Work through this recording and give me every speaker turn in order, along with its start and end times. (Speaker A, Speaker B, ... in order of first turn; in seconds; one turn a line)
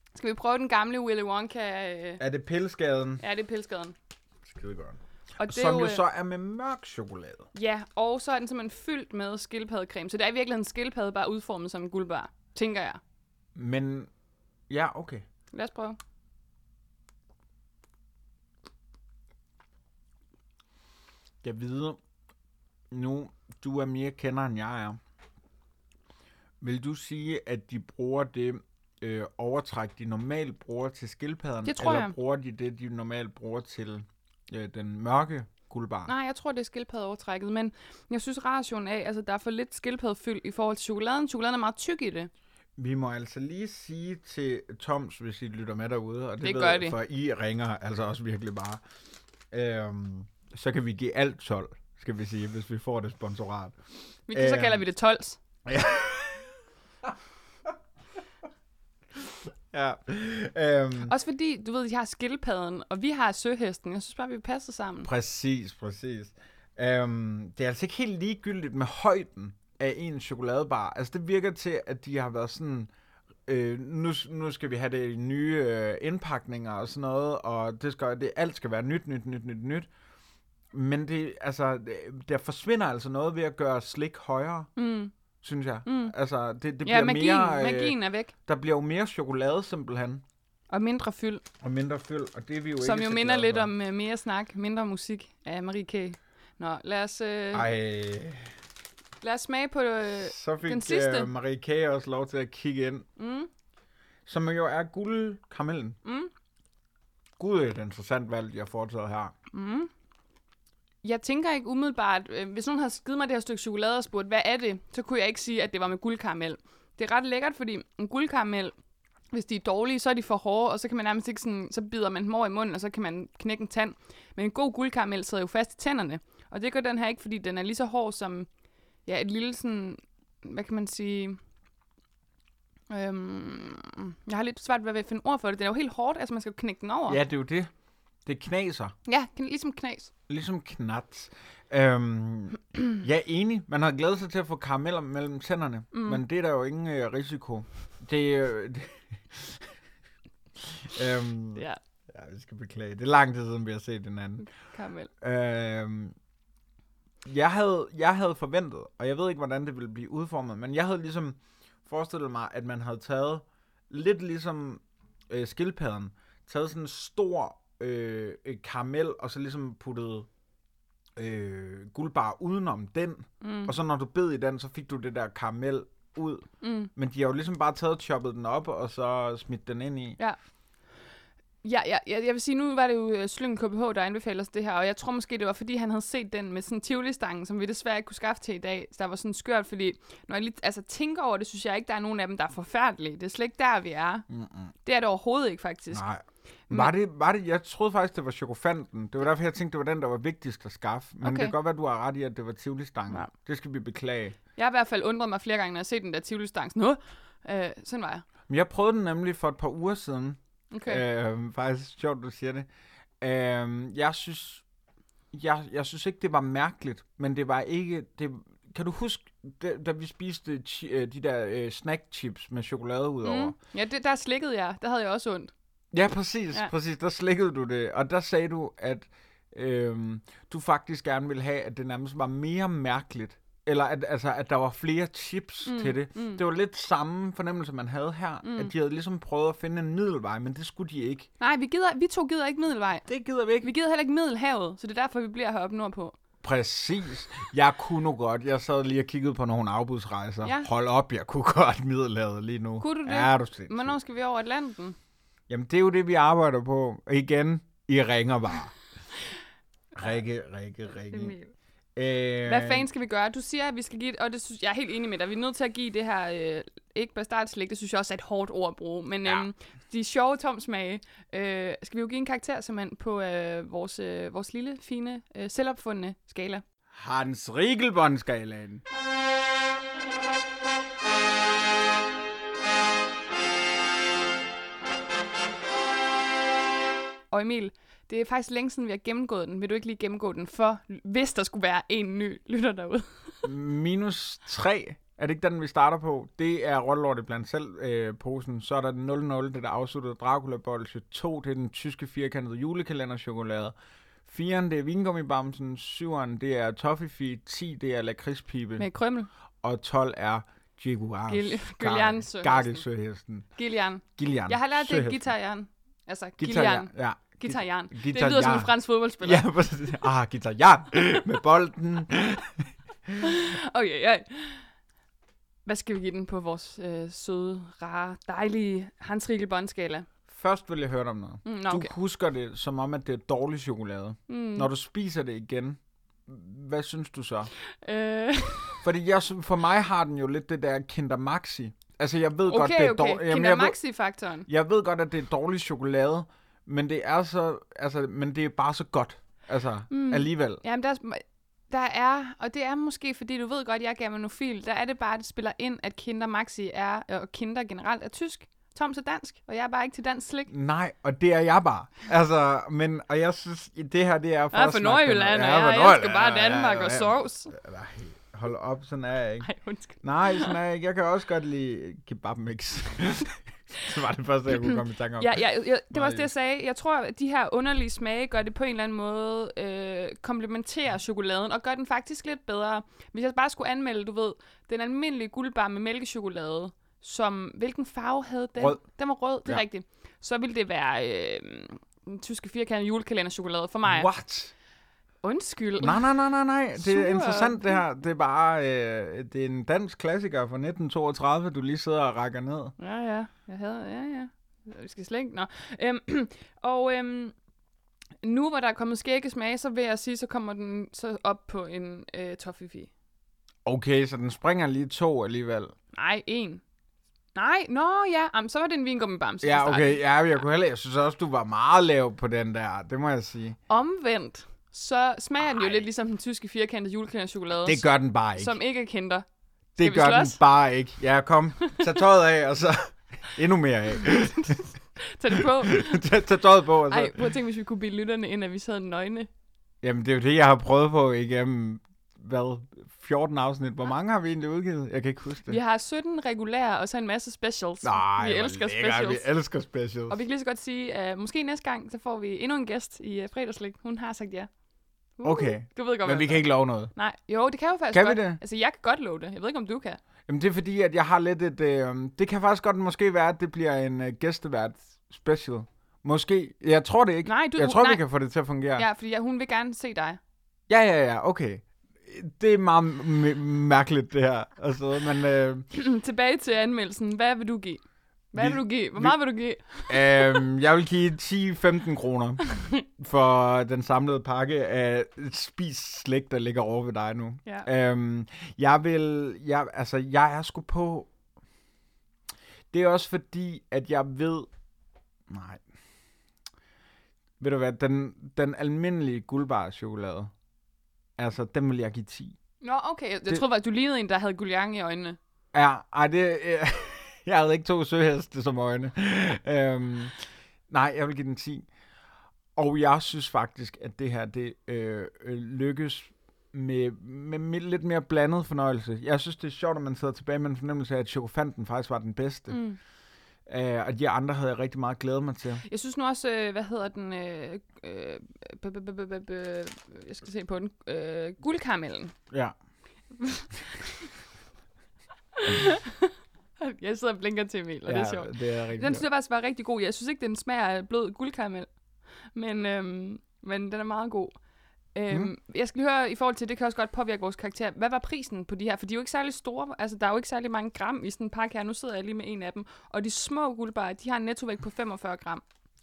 Speaker A: 0.1-2.2
Speaker B: 2.2-3.2
Speaker A: 3.2-3.9
Speaker B: 4.4-7.5
Speaker A: 5.4-6.0
Speaker A: 7.5-13.0
Speaker B: 13.5-14.1
Speaker B: 14.7-15.2
Speaker A: 15.5-16.0
Speaker B: 21.4-22.0
Speaker B: 22.9-25.0
Speaker B: 26.6-36.1
Speaker A: 31.6-32.1
Speaker A: 36.1-42.3
Speaker B: 42.8-48.8
Speaker A: 46.4-47.0
Speaker B: 49.5-53.8
Speaker A: 54.3-55.4
Speaker B: 54.3-54.8
Speaker B: 55.6-57.1
Speaker B: 59.1-61.1
Speaker A: 61.0-65.1
Speaker B: 65.0-72.9
Speaker B: 73.5-79.9
Speaker B: 80.7-84.7
Speaker A: 84.8-85.1
Speaker B: 85.4-90.2
Speaker A: 85.8-86.1
Speaker A: 86.8-88.3
Speaker A: 90.7-91.4
Speaker B: 91.6-93.7
Speaker A: 92.8-97.7
Speaker B: 97.5-98.5
Speaker A: 99.2-101.3
Speaker B: 100.2-103.1
Speaker A: 103.2-103.5
Speaker B: 104.2-106.0
Speaker A: 106.0-106.3
Speaker B: 107.4-109.3
Speaker A: 109.5-109.9
Speaker A: 111.0-118.7
Speaker A: 119.3-128.5
Speaker A: 129.1-131.4
Speaker A: 132.9-137.2
Speaker B: 137.1-137.7
Speaker B: 138.2-138.9
Speaker A: 139.1-140.1
Speaker B: 140.3-149.7
Speaker A: 145.9-146.2
Speaker B: 150.6-154.4
Speaker A: 154.4-155.1
Speaker B: 155.2-156.1
Speaker B: 157.2-170.3
Speaker B: 171.2-180.2
Speaker A: 173.4-173.7
Speaker A: 176.6-176.9
Speaker A: 181.6-194.3
Speaker B: 194.3-194.7
Speaker A: 194.8-196.0
Speaker B: 195.9-204.4
Speaker A: 201.2-201.5
Speaker A: 204.6-208.2
Speaker B: 208.5-212.7
Speaker A: 210.7-211.0
Speaker B: 213.2-214.6
Speaker B: 215.3-223.5
Speaker A: 223.2-225.5
Speaker B: 225.9-241.3
Speaker A: 235.6-236.4
Speaker A: 238.4-238.7
Speaker A: 241.4-243.1
Speaker B: 243.1-243.7
Speaker A: 243.6-246.1
Speaker B: 246.4-253.9
Speaker A: 250.4-250.7
Speaker A: 252.8-254.9
Speaker B: 255.5-258.7
Speaker B: 259.9-261.4
Speaker A: 261.1-261.5
Speaker B: 261.9-262.9
Speaker A: 262.4-276.6
Speaker B: 276.9-278.8
Speaker A: 287.3-293.5
Speaker B: 293.4-303.7
Speaker B: 304.2-308.9
Speaker A: 308.8-309.3
Speaker B: 309.6-313.5
Speaker A: 311.3-312.8
Speaker A: 313.5-319.4
Speaker B: 314.2-315.2
Speaker B: 316.4-323.2
Speaker A: 323.2-324.6
Speaker A: 325.6-330.1
Speaker B: 330.3-337.5
Speaker A: 331.4-331.9
Speaker A: 334.3-334.7
Speaker A: 337.8-338.8
Speaker B: 338.8-343.8
Speaker A: 342.5-344.5
Speaker B: 344.5-350.6
Speaker A: 349.9-360.5
Speaker B: 360.5-369.5
Speaker A: 364.5-367.5
Speaker A: 369.4-370.5
Speaker B: 370.0-375.3
Speaker A: 374.7-394.1
Speaker B: 375.9-376.3
Speaker B: 393.8-394.5
Speaker A: 395.2-396.1
Speaker B: 395.8-402.7
Speaker A: 396.7-397.8
Speaker A: 402.8-407.3
Speaker A: 408.2-412.9
Speaker B: 413.6-415.7
Speaker A: 415.9-416.6
Speaker A: 417.3-420.1
Speaker B: 419.4-423.6
Speaker A: 423.7-429.2
Speaker B: 427.6-428.5
Speaker B: 429.8-434.6
Speaker A: 429.8-430.4
Speaker A: 434.3-436.1
Speaker B: 435.3-437.2
Speaker A: 436.9-439.3
Speaker B: 439.8-445.6
Speaker A: 445.5-449.2
Speaker B: 447.8-450.2
Speaker A: 450.1-454.5
Speaker A: 455.2-460.0
Speaker B: 455.2-456.9
Speaker B: 457.9-458.4
Speaker B: 460.3-468.9
Speaker A: 467.2-468.0
Speaker A: 468.8-470.2
Speaker B: 470.7-475.7
Speaker A: 475.7-477.8
Speaker A: 478.3-480.4
Speaker B: 478.3-479.2
Speaker B: 479.9-491.1
Speaker B: 492.7-494.5
Speaker B: 495.3-495.6
Speaker B: 497.4-500.3
Speaker B: 501.2-502.4
Speaker A: 502.6-505.2
Speaker B: 505.5-510.1
Speaker B: 510.7-511.7
Speaker B: 512.5-522.6
Speaker A: 522.5-522.8
Speaker B: 523.5-525.6
Speaker A: 525.6-532.1
Speaker B: 532.3-532.5
Speaker A: 533.2-534.1
Speaker A: 535.3-541.7
Speaker B: 537.9-539.0
Speaker A: 542.3-544.4
Speaker A: 544.9-555.4